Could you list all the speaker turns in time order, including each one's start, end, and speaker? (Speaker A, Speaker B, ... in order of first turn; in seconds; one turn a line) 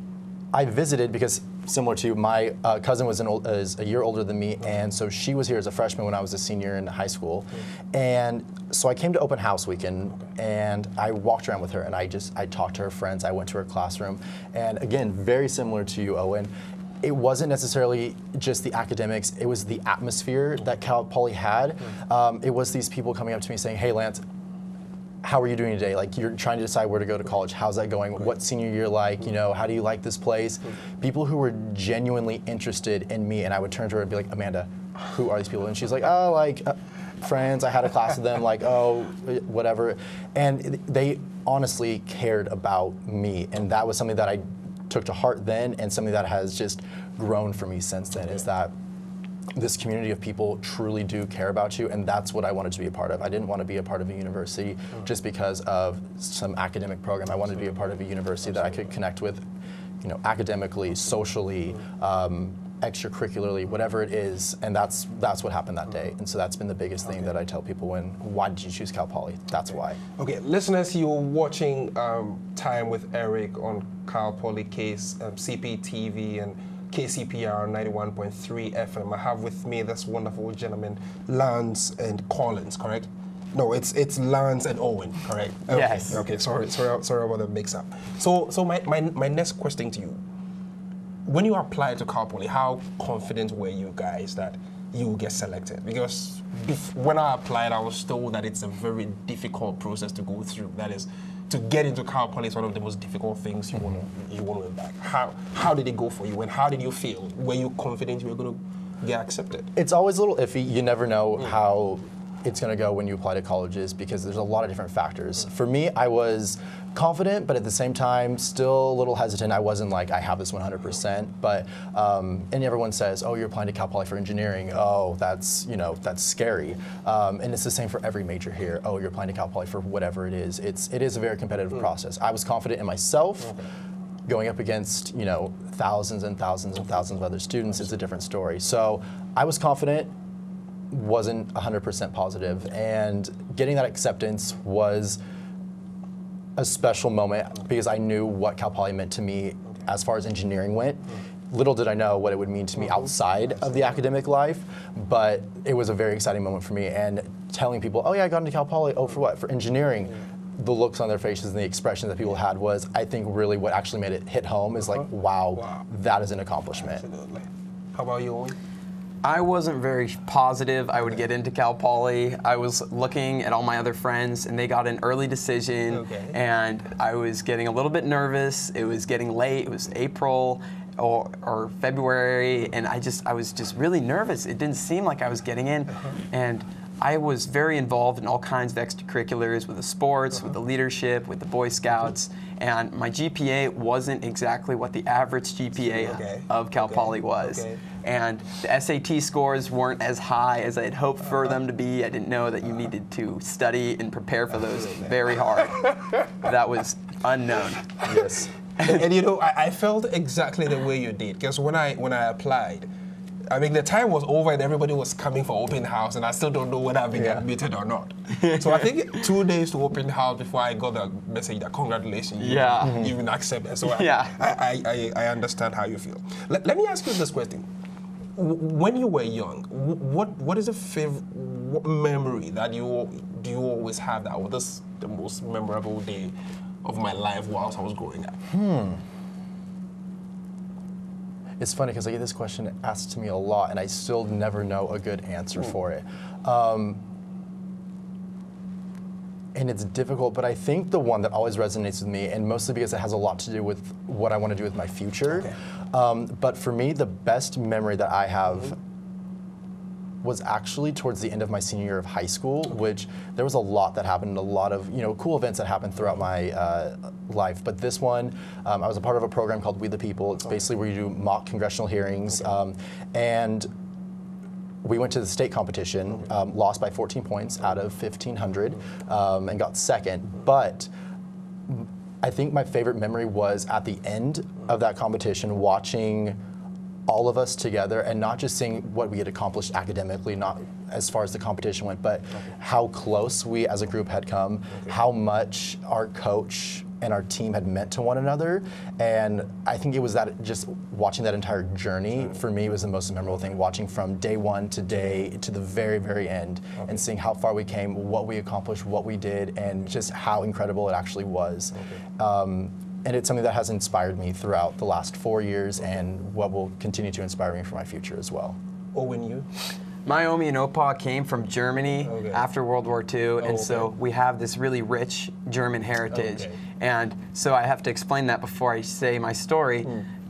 Speaker A: 0.5-16.5
Speaker A: 17.0-24.2
Speaker A: 25.2-48.7
Speaker A: 49.5-59.5
Speaker B: 58.6-58.8
Speaker A: 60.0-70.0
Speaker B: 70.2-90.2
Speaker C: 85.7-86.2
Speaker B: 91.2-109.7
Speaker A: 103.8-104.0
Speaker A: 109.7-133.6
Speaker A: 134.3-140.1
Speaker A: 140.9-145.2
Speaker A: 146.6-167.0
Speaker B: 165.5-165.8
Speaker B: 166.8-168.6
Speaker C: 169.2-205.8
Speaker B: 175.9-176.4
Speaker B: 195.8-197.8
Speaker B: 204.6-206.3
Speaker C: 206.4-207.9
Speaker B: 208.0-208.3
Speaker A: 208.1-208.5
Speaker B: 208.8-212.9
Speaker B: 213.5-227.7
Speaker A: 217.1-217.4
Speaker C: 218.3-219.2
Speaker C: 222.4-223.1
Speaker A: 222.8-223.1
Speaker C: 223.8-224.3
Speaker B: 228.3-238.4
Speaker A: 238.5-239.0
Speaker A: 241.6-247.0
Speaker A: 249.5-258.8
Speaker B: 255.3-255.6
Speaker A: 260.2-273.7
Speaker A: 274.8-280.9
Speaker A: 281.7-286.4
Speaker A: 287.1-318.6
Speaker B: 311.8-312.0
Speaker B: 318.9-319.5
Speaker C: 320.1-329.9
Speaker B: 322.0-322.4
Speaker B: 323.4-323.9
Speaker B: 326.1-326.6